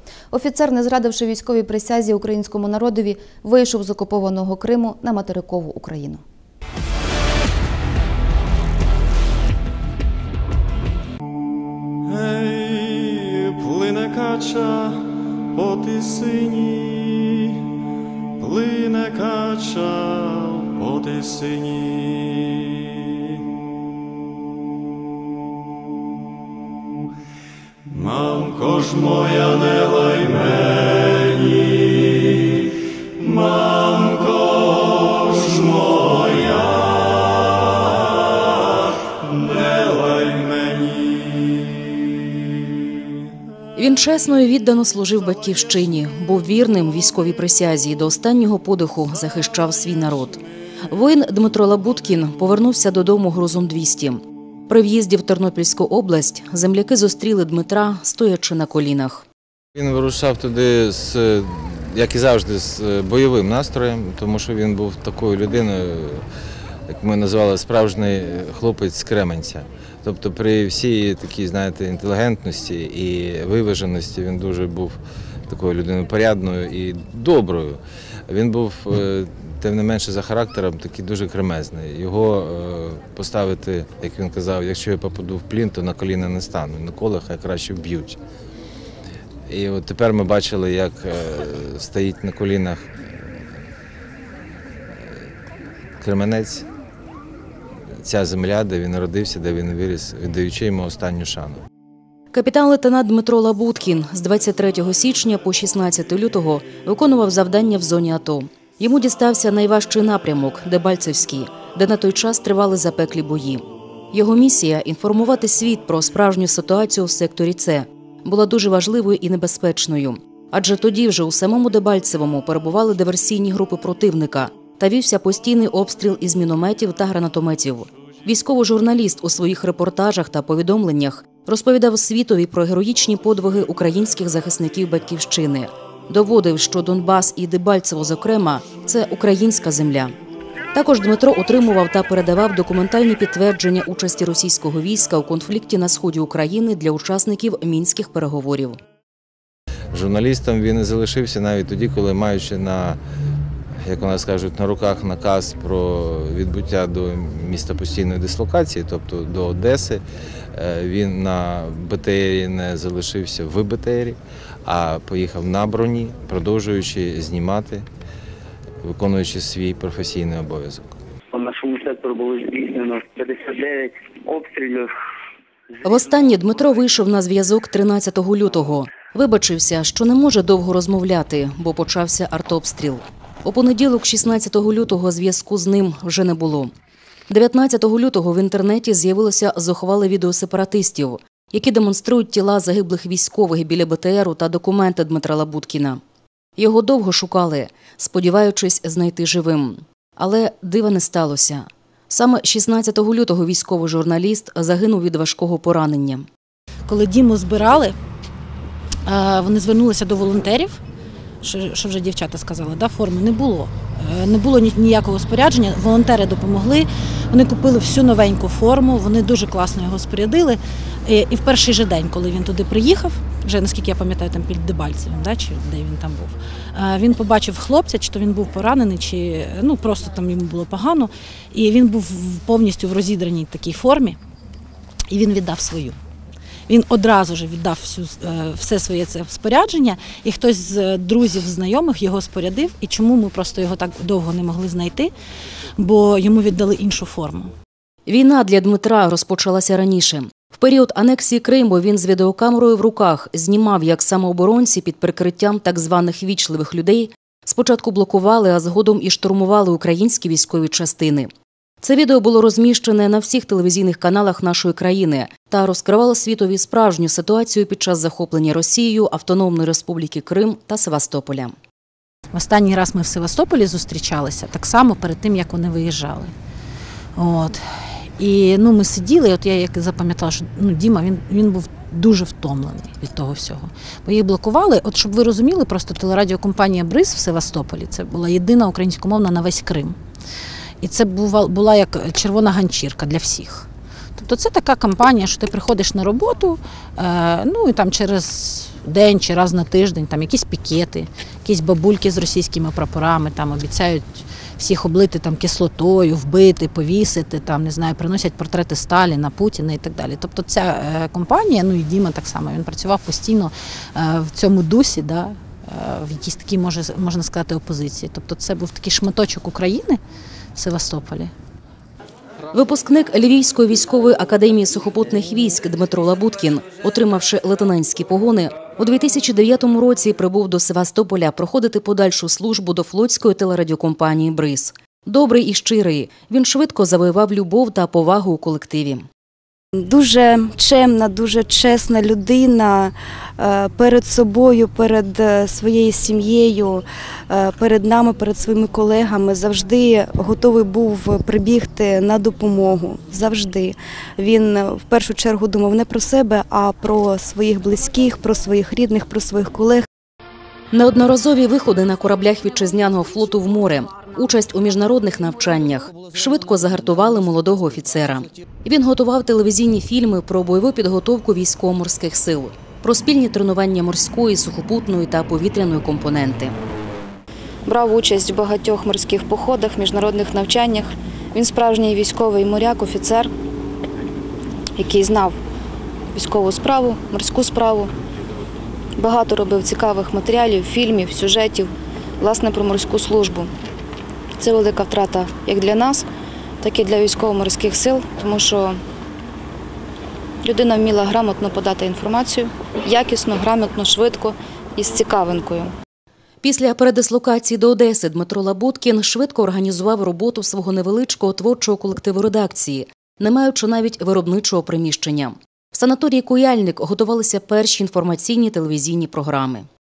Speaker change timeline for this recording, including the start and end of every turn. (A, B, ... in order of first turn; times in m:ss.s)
0:00.3-0:06.2 A
0:12.1-0:15.0 B
0:15.5-0:17.3 B
0:18.4-0:22.4 B
0:27.9-0:30.8 B
0:33.5-0:34.6 B
0:35.1-0:36.4 B
0:40.1-0:40.4 B
0:43.8-0:59.2 C
0:59.8-1:06.2 D
1:06.9-1:28.2 D
1:29.5-1:33.3 D
1:36.0-1:36.6 D
1:38.0-1:41.6 D
1:42.3-2:20.1 C
2:20.7-2:28.8 C
2:29.9-2:33.0 D
2:33.8-2:40.0 D
2:40.5-2:47.8 D
2:48.8-2:50.9 D
2:51.3-2:54.9 E
2:55.8-3:06.7 C
3:07.3-3:16.0 C
3:16.6-3:26.2 C
3:26.9-3:27.9 F
3:29.0-3:30.8 F
3:31.4-3:54.2 F
3:55.1-3:56.0 F
3:56.7-4:05.1 F
4:05.8-4:07.5 F
4:08.1-4:21.3 C
4:21.8-4:31.5 C
4:32.3-4:36.3 F
4:37.2-4:37.7 F
4:38.2-4:50.0 F
4:50.8-4:53.7 F
4:54.2-5:20.0 F
5:20.6-5:21.3 F
5:22.5-5:39.0 C
5:39.8-5:59.9 G
6:00.7-6:16.5 C
6:17.7-6:20.8 A
6:21.4-6:23.2 A
6:24.8-6:25.3 A
6:26.2-6:27.9 A
6:29.0-6:31.6 A
6:32.3-6:33.4 A
6:34.4-6:36.0 A
6:36.6-6:38.7 A
6:40.5-6:42.4 A
6:43.0-6:44.2 A
6:44.8-6:45.7 A
6:46.4-6:59.6 C